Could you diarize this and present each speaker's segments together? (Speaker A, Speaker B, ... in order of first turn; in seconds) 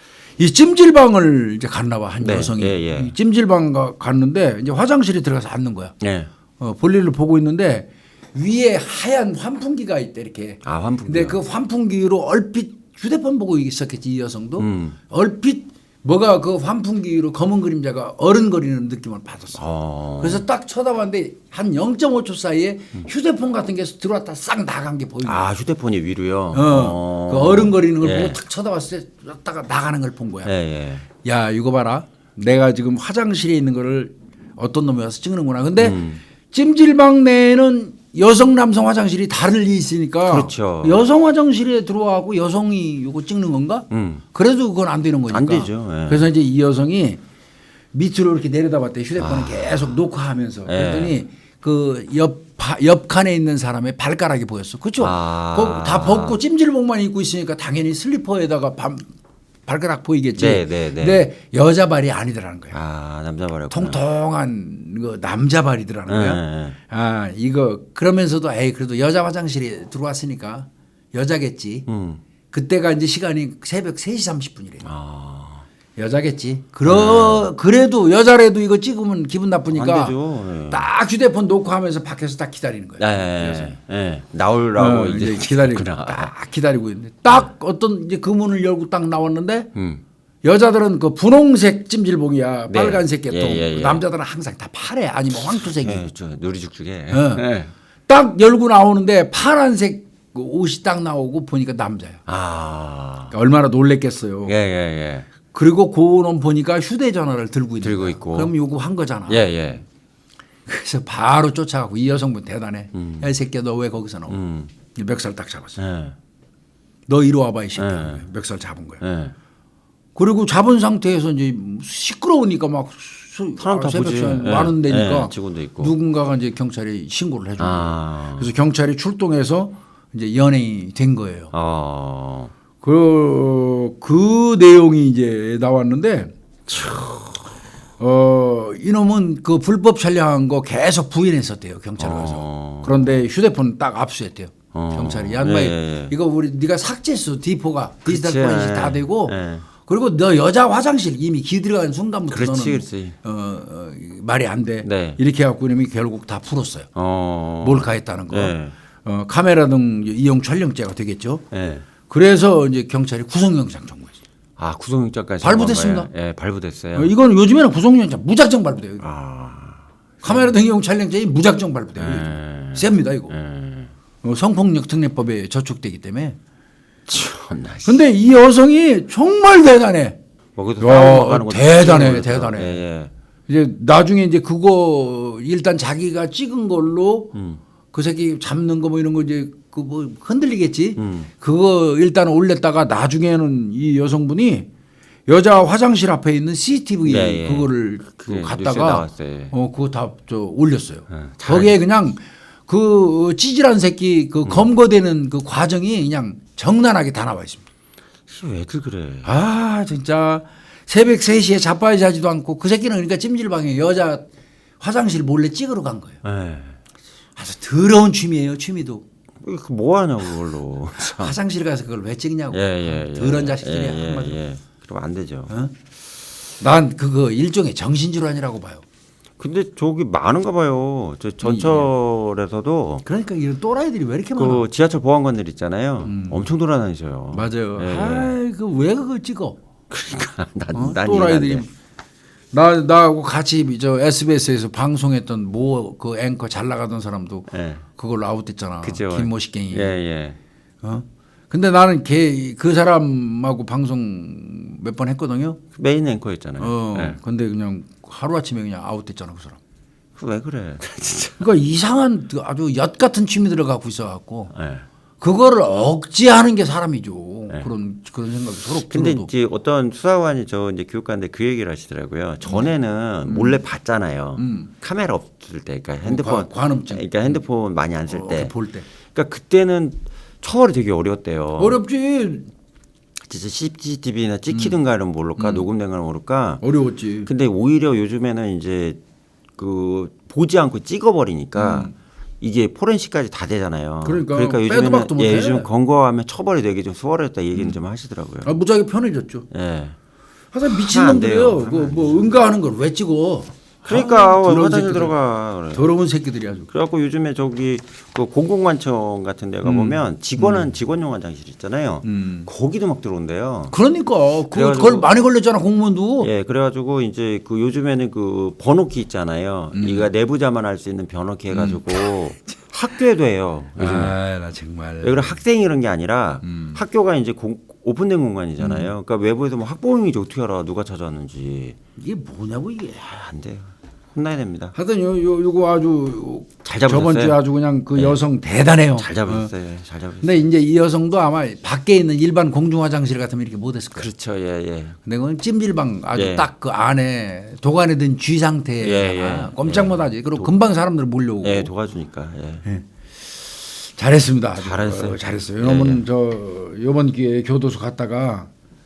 Speaker A: 0.4-6.0, 6.6-19.6, 20.2-25.4, 26.5-30.5, 31.2-47.2, 47.9-59.1, 59.7-62.8, 63.7-71.9, 72.5-74.9, 76.0-80.2, 80.7-83.8, 84.8-89.7, 90.4-96.1, 97.1-97.4, 98.1-102.2, 103.3-104.5, 105.5-109.4, 110.7-114.4, 114.9-115.8, 117.1-119.0, 120.2-131.5, 132.8-137.1, 138.0-156.9, 157.6-161.4, 162.1-164.2, 165.4-166.1, 166.9-169.1, 170.2-173.3, 174.2-176.4, 177.8-180.2, 180.8-182.8, 183.5-187.3, 187.9-194.7, 195.3-207.7, 209.2-214.3, 214.8-216.2, 217.4-219.0, 221.0-224.4, 226.6-228.8, 231.4-231.9, 233.0-234.7, 236.0-236.5, 237.3-239.6, 240.7-241.7, 242.5-250.0, 250.8-255.6, 256.6-259.6, 261.4-264.5, 265.2-269.3, 273.3-273.6, 274.4-274.7, 276.1-277.4, 278.1-278.9, 281.6-282.5, 284.5-284.8, 285.4-285.7, 286.6-287.3, 291.6-291.9, 294.0-295.7, 298.4-299.5, 300.5-305.2, 305.7-306.7, 309.6-310.8, 312.0-312.5, 313.7-316.3, 319.7-320.1, 321.5-322.3, 323.8-325.4, 326.4-326.8, 328.6-328.9, 332.0-333.0, 334.7-339.5, 340.2-344.1, 345.0-351.7, 352.6-358.5
Speaker B: 2.2-3.1, 6.0-6.3, 10.6-11.4, 14.6-15.0, 19.5-20.4, 25.2-28.4, 30.4-31.1, 35.8-36.2, 40.3-41.1, 43.9-44.2, 45.3-46.3, 49.2-49.8, 50.7-51.2, 55.0-56.4, 60.4-61.2, 62.7-64.0, 66.1-66.8, 71.9-72.2, 74.8-75.7, 76.8-77.5, 79.7-80.9, 83.0-86.3, 89.8-90.0, 92.7-94.0, 95.5-97.7, 102.3-103.3, 104.5-105.3, 107.8-108.5, 109.3-109.8, 112.9-113.3, 114.3-114.7, 115.8-116.2, 117.8-118.2, 119.0-119.3, 123.6-125.9, 127.6-128.5, 131.5-132.5, 136.8-137.1, 142.0-143.1, 144.7-146.1, 148.1-149.7, 152.3-153.2, 154.8-155.2, 156.9-158.7, 161.5-161.9, 164.6-167.1, 169.0-170.5, 172.0-173.9, 177.1-178.0, 180.6-183.1, 187.3-187.6, 191.0-191.3, 197.1-199.5, 201.1-201.8, 208.3-209.3, 216.2-216.8, 219.4-221.3, 222.5-225.5, 229.4-233.0, 234.3-238.4, 239.9-241.7, 247.5-247.8, 248.8-250.4, 255.8-257.2, 260.2-261.5, 264.5-264.9, 268.8-278.5, 279.1-281.8, 283.2-286.6, 287.3-289.0, 289.6-298.5, 299.5-300.0, 300.7-302.4, 303.8-305.9, 306.7-313.8, 314.5-315.1, 316.2-324.2, 325.0-331.8, 333.0-334.8, 336.6-337.4, 337.9-338.2, 339.0-340.4, 344.0-345.0, 346.2-346.5, 348.8-350.5, 351.4-352.6, 354.6-356.0